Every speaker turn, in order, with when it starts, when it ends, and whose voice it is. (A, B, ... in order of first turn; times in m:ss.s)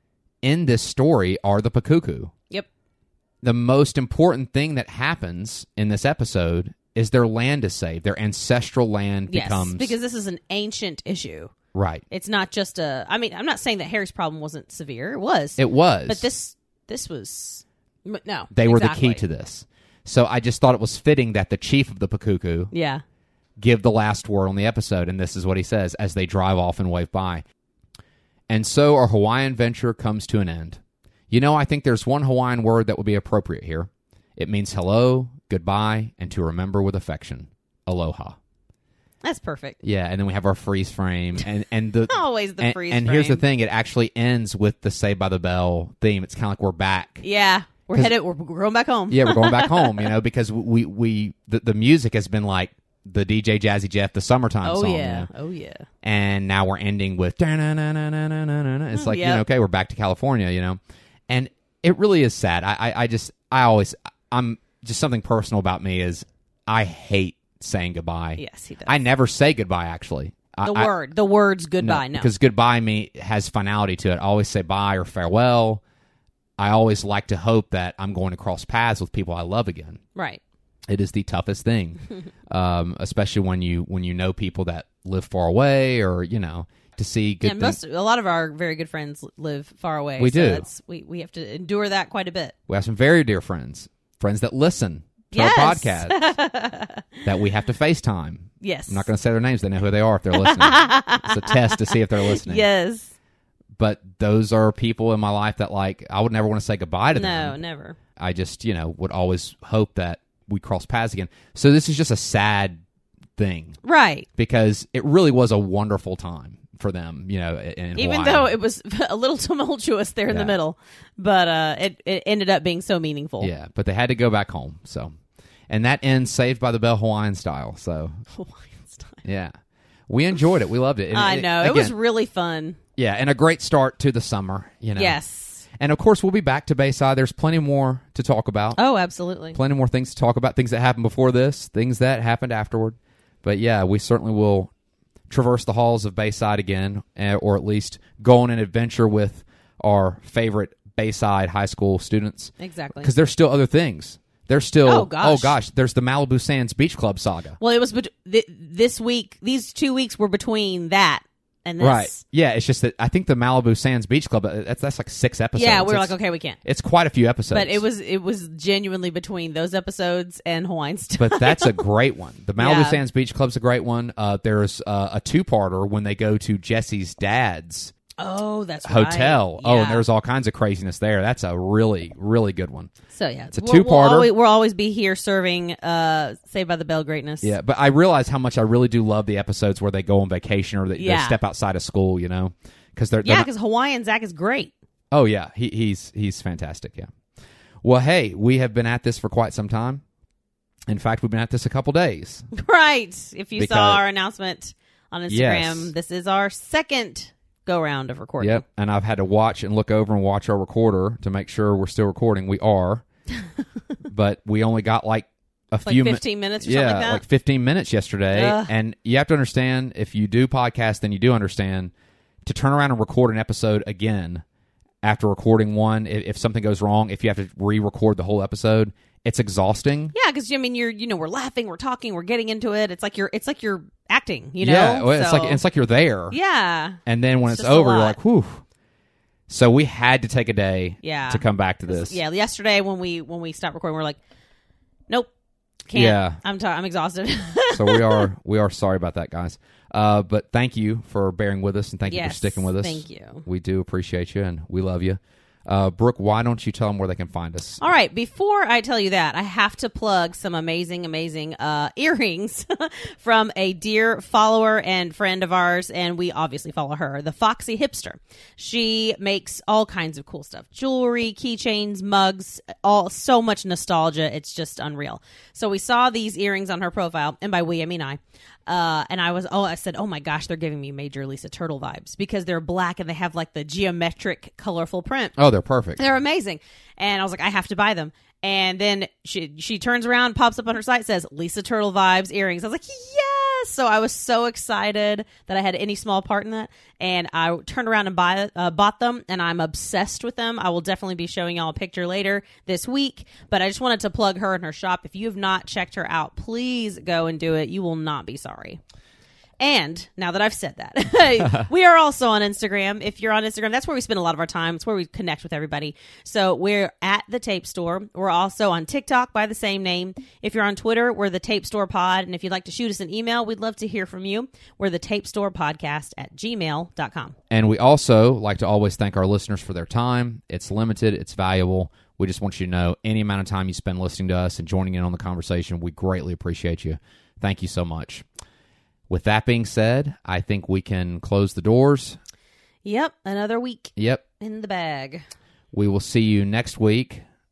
0:00.4-0:02.3 A
0:03.4-0:10.0 A
0:09.3-0:11.5 B
0:11.7-0:12.0 A
0:12.1-0:19.2 B
0:15.6-0:16.3 A
0:18.5-0:22.7 A
0:22.7-0:23.0 B
0:23.6-0:27.4 A
0:28.5-0:38.4 A
0:39.2-0:39.8 B
0:39.8-0:47.2 A
0:42.1-0:43.4 B
0:47.2-0:50.1 B
0:49.1-0:55.3 A
0:54.6-0:55.8 B
0:56.0-1:10.9 A
0:58.9-0:59.4 B
1:08.4-1:09.0 B
1:10.6-1:12.3 B
1:11.8-1:15.8 A
1:16.6-1:20.0 A
1:20.2-1:20.4 B
1:20.9-1:27.8 A
1:27.4-1:32.5 B
1:30.2-1:30.7 A
1:32.7-1:36.3 A
1:35.3-1:37.1 B
1:37.2-1:42.7 A
1:38.6-1:39.1 B
1:40.3-1:43.1 B
1:43.8-1:47.6 A
1:47.1-1:48.0 B
1:48.2-1:52.8 A
1:53.4-1:53.8 A
1:53.8-1:54.3 B
1:54.4-1:58.5 A
1:58.0-2:03.5 B
2:03.4-2:05.1 A
2:05.7-2:08.2 A
2:08.3-2:09.2 B
2:09.2-2:09.5 A
2:10.1-2:11.9 A
2:11.1-2:12.8 B
2:13.0-2:15.2 A
2:15.0-2:15.6 B
2:15.8-2:18.8 A
2:18.8-2:19.6 B
2:19.5-2:24.7 A
2:25.3-2:37.6 A
2:32.6-2:33.1 B
2:34.8-2:35.6 B
2:37.6-2:42.2 B
2:41.8-2:46.1 A
2:45.6-2:46.6 B
2:46.6-2:47.8 A
2:47.5-2:51.8 B
2:51.2-2:57.9 A
2:52.6-2:53.0 B
2:58.2-3:00.0 B
2:58.8-3:02.9 A
3:03.1-3:07.6 B
3:03.5-3:04.3 A
3:07.4-3:13.5 A
3:11.0-3:11.4 B
3:13.2-3:14.7 B
3:15.1-3:17.1 A
3:17.8-3:20.0 A
3:20.9-3:22.5 A
3:22.5-3:28.6 B
3:23.6-3:24.0 A
3:25.3-3:25.9 A
3:28.4-3:33.0 A
3:34.1-3:41.9 A
3:35.8-3:37.2 B
3:38.3-3:38.7 B
3:42.4-3:44.4 A
3:45.0-3:50.1 A
3:50.1-3:55.6 B
3:54.6-3:56.4 A
3:56.3-3:58.2 B
3:57.0-3:58.6 A
3:59.5-4:02.2 A
4:01.0-4:04.2 B
4:05.9-4:08.3 B
4:05.9-4:06.4 A
4:07.7-4:17.8 A
4:12.1-4:13.4 B
4:17.8-4:45.4 B
4:45.4-4:46.0 A
4:46.0-5:08.8 B
5:09.6-5:27.4 B
5:27.5-5:38.3 A
5:39.1-5:42.2 A
5:42.8-5:45.3 B
5:44.0-5:44.2 A
5:45.7-5:47.2 A